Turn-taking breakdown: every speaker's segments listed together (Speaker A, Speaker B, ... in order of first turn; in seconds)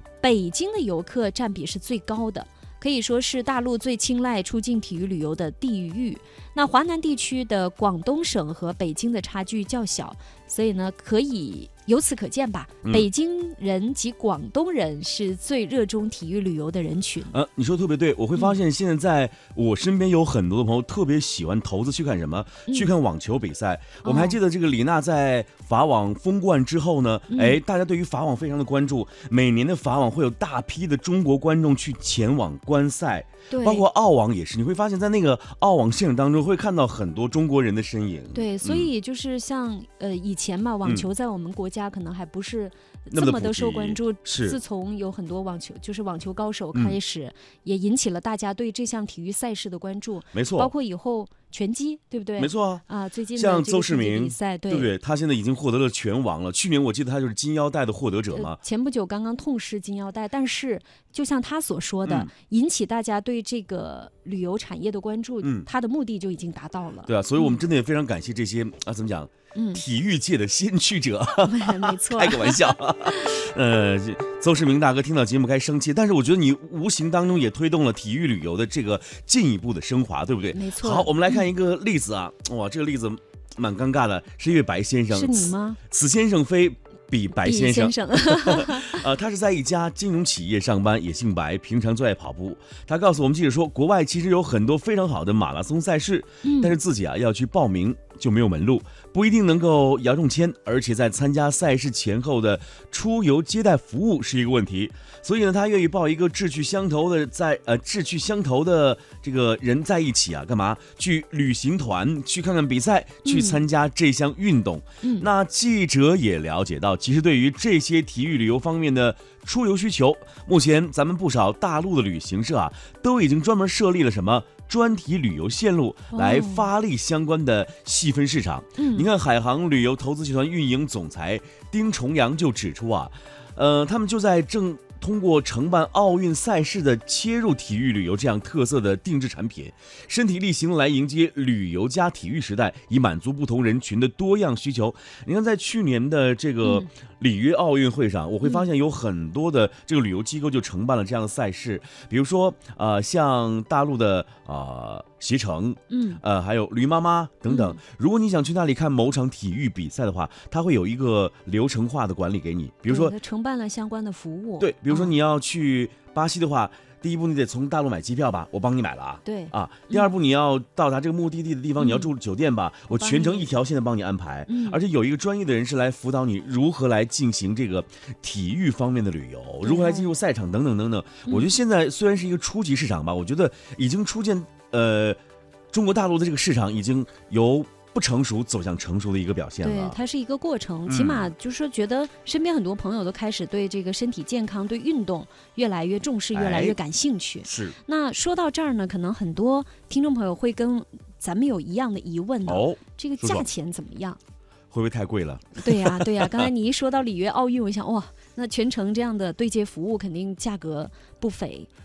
Speaker A: 0.2-17.3, 24.0-24.4, 27.3-27.6, 33.5-33.9, 38.3-54.9, 58.3-67.6, 69.5-69.8, 71.4-72.7, 80.5-81.4, 85.1-85.8, 87.4-89.0, 96.4-96.8, 113.2-113.7, 115.0-115.3, 126.1-126.7, 128.8-129.1, 155.9-156.2, 157.5-157.8, 162.9-165.1, 169.2-170.1, 171.8-172.1, 172.9-173.5, 174.5-174.8, 179.6-180.1, 181.2-181.6, 189.6-204.2, 205.6-211.7
Speaker B: 17.3-38.9, 43.1-44.6, 50.3-50.7, 52.4-52.8, 53.4-58.6, 62.0-62.3, 65.4-65.7, 67.1-163.2, 164.6-185.2, 185.7-190.0, 190.9-191.3, 196.3-196.8, 197.4-197.8, 202.5-203.5, 204.7-206.5